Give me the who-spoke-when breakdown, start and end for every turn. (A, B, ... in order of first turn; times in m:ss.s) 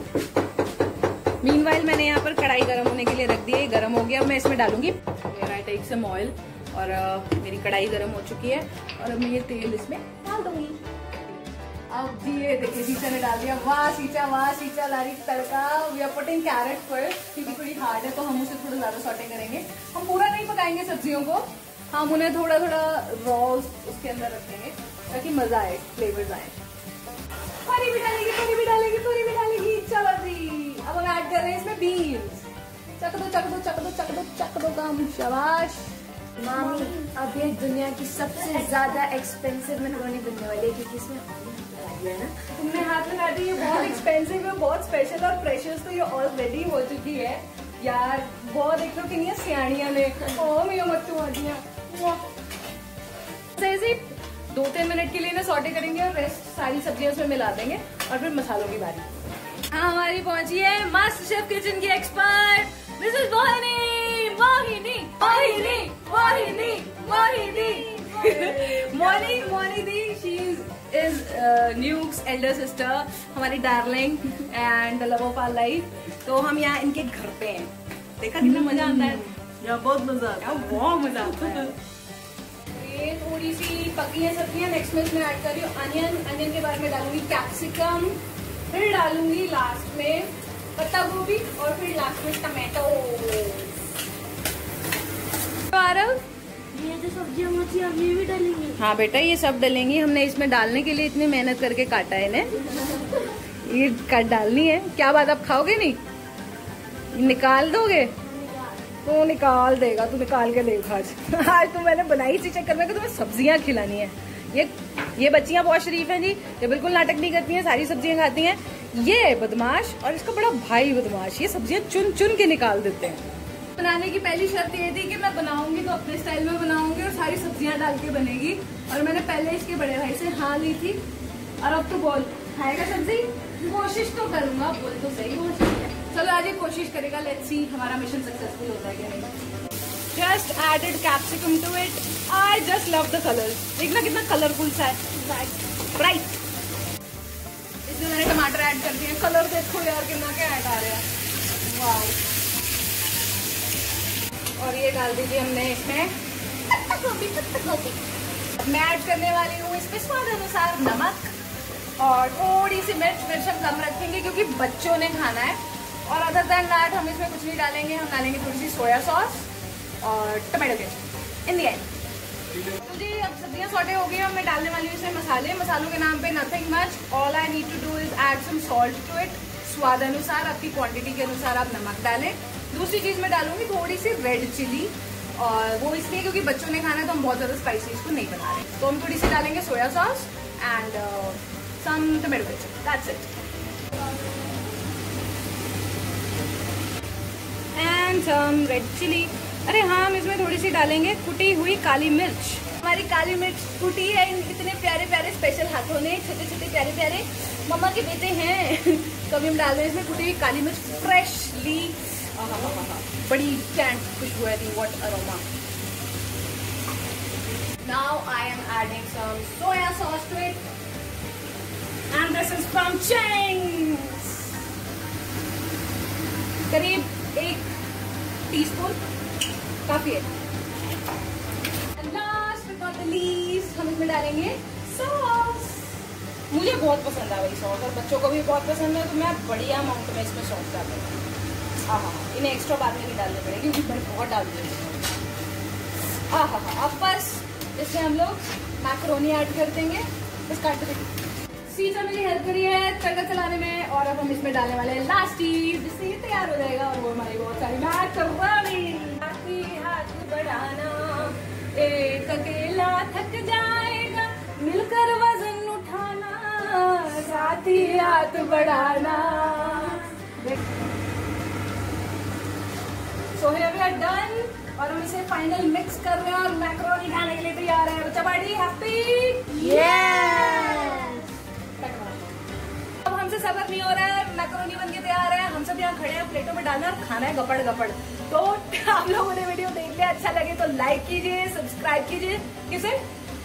0:01.4-0:10.8 A
0:11.9-0:26.5 A
0:27.6-0:32.5 A
0:33.0-0:36.0 A
0:36.4-0:42.4 B
0:36.4-0:37.1 C
0:38.4-0:39.0 C
0:42.5-0:52.3 A
0:53.5-0:59.1 A
0:59.7-1:21.8 A
1:05.2-1:09.4 C
1:22.7-1:33.7 A
1:35.7-1:36.2 A
1:36.7-1:38.8 C
1:38.8-1:46.0 A
1:47.1-1:48.2 A
1:48.3-1:48.7 C
1:49.0-2:03.2 A
2:03.8-2:11.0 A
2:11.6-2:19.3 A
2:20.1-2:26.4 A
2:27.8-2:31.0 A
2:31.6-2:32.2 A
2:34.6-2:36.1 A
2:36.9-2:38.0 A
2:38.6-2:41.3 A
2:42.0-2:49.5 A
2:50.0-2:51.9 A
2:52.7-3:13.3 A
3:17.7-3:35.4 A
3:37.8-3:40.6 A
3:42.1-3:44.5 A
3:46.7-3:47.7 A
3:48.5-3:49.0 A
3:49.8-3:50.3 A
3:52.0-4:01.1 A
4:01.9-4:05.1 A
4:06.3-4:11.1 A
4:11.6-4:30.6 A
4:33.3-4:41.2 A
4:39.5-4:41.3 C
4:41.8-4:42.2 A
4:43.0-4:53.0 A